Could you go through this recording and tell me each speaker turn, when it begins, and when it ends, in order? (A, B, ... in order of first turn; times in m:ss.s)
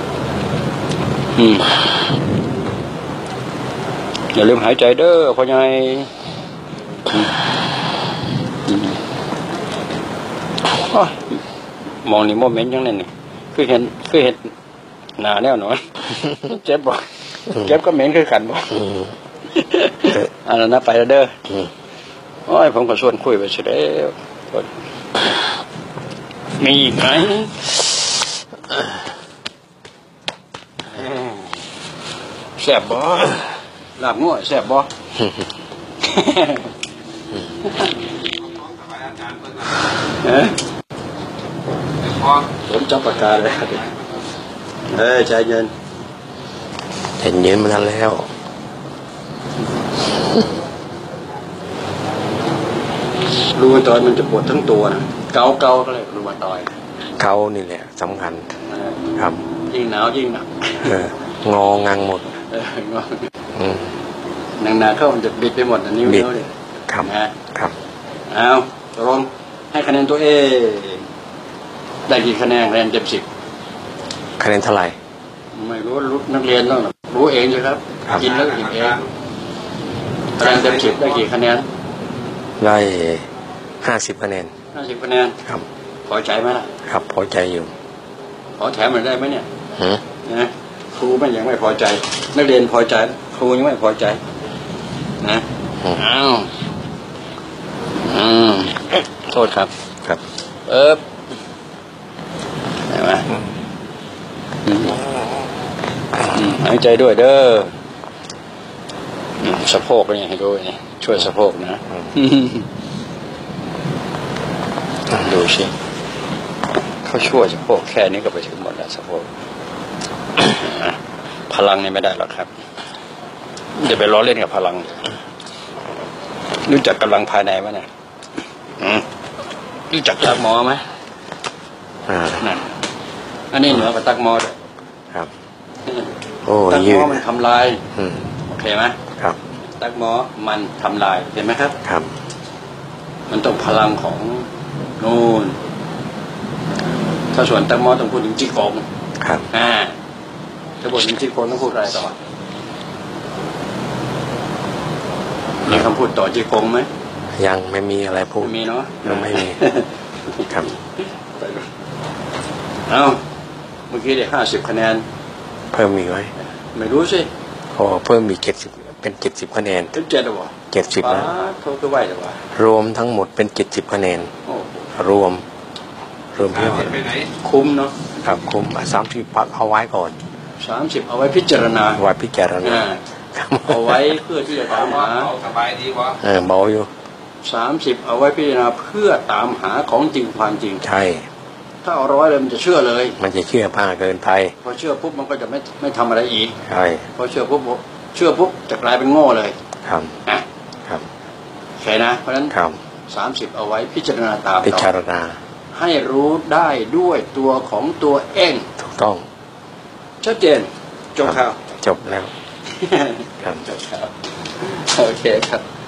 0:01.3-0:01.9 A
0:04.3-0:06.1 A
0:08.7-0:09.0 A
0:10.7-0:11.4 A
0:12.0-0:14.5 A
0:15.2-0:19.0 A
0:19.5-0:21.4 A
0:22.5-0:24.7 A
0:26.6-0:27.9 A
0:30.9-0:31.4 A
0:32.6-0:34.9 A
0:36.0-0:36.7 A
0:37.5-0:38.0 A
0:38.5-0:39.7 B
0:40.1-0:40.6 A
0:42.3-0:44.0 A
0:44.9-0:45.7 A
0:47.2-0:48.3 C
0:53.5-0:56.7 A
0:57.2-0:58.5 C
0:58.7-0:59.0 A
0:59.2-0:59.4 C
0:59.7-1:01.0 A
1:00.8-1:02.2 C
1:02.3-1:03.3 A
1:03.5-1:04.0 C
1:04.6-1:06.5 A
1:06.9-1:07.7 C
1:07.0-1:07.4 A
1:08.3-1:11.1 A
1:12.1-1:13.3 A
1:14.4-1:15.0 C
1:15.5-1:19.0 A
1:20.4-1:21.7 A
1:22.6-1:23.3 C
1:23.8-1:24.5 C
1:24.7-1:25.4 A
1:26.0-1:26.7 A
1:26.8-1:27.7 C
1:28.6-1:29.5 A
1:29.8-1:30.0 C
1:30.2-1:34.2 A
1:35.2-1:36.5 A
1:37.9-1:39.7 A
1:40.6-1:41.0 A
1:42.9-1:43.3 A
1:44.6-1:45.0 A
1:46.2-1:47.7 A
1:49.4-1:52.7 A
1:55.1-1:55.7 A
1:57.0-1:59.3 A
2:00.4-2:02.5 A
2:03.8-2:05.1 A
2:06.6-2:07.9 A
2:08.8-2:09.1 A
2:09.9-2:10.9 A
2:12.1-2:12.5 C
2:12.4-2:12.7 A
2:13.5-2:14.6 A
2:15.9-2:16.1 A
2:16.4-2:17.2 C
2:16.7-2:17.9 A
2:17.9-2:18.3 C
2:18.5-2:19.0 A
2:19.8-2:21.8 A
2:21.8-2:22.1 C
2:23.3-2:25.6 A
2:27.3-2:28.8 A
2:29.2-2:29.5 C
2:29.5-2:30.0 A
2:30.8-2:32.2 A
2:35.6-2:36.9 A
2:37.3-2:39.6 C
2:38.4-2:41.7 A
2:42.9-2:43.2 A
2:43.9-2:45.0 A
2:45.7-2:46.3 C
2:46.6-2:47.3 A
2:47.7-2:49.9 C
2:49.9-2:52.5 A
2:50.7-2:51.3 C
2:52.5-2:54.3 C
2:54.4-2:54.9 A
2:54.9-2:55.4 C
2:56.3-2:57.1 C
2:57.2-2:58.1 A
2:58.2-3:00.2 C
3:00.6-3:02.0 A
3:01.9-3:04.2 C
3:02.6-3:03.0 A
3:03.6-3:05.4 A
3:05.4-3:06.1 B
3:06.1-3:06.9 C
3:07.4-3:10.8 A
3:10.8-3:11.3 C
3:11.8-3:13.2 A
3:13.2-3:14.5 C
3:14.6-3:16.6 A
3:16.6-3:17.0 C
3:17.2-3:19.5 A
3:19.8-3:20.2 C
3:21.8-3:22.5 A
3:22.5-3:22.8 C
3:23.1-3:24.9 A
3:24.6-3:25.4 C
3:25.7-3:28.7 A
3:28.8-3:29.2 C
3:30.2-3:31.6 A
3:31.2-3:32.3 C
3:32.7-3:35.6 A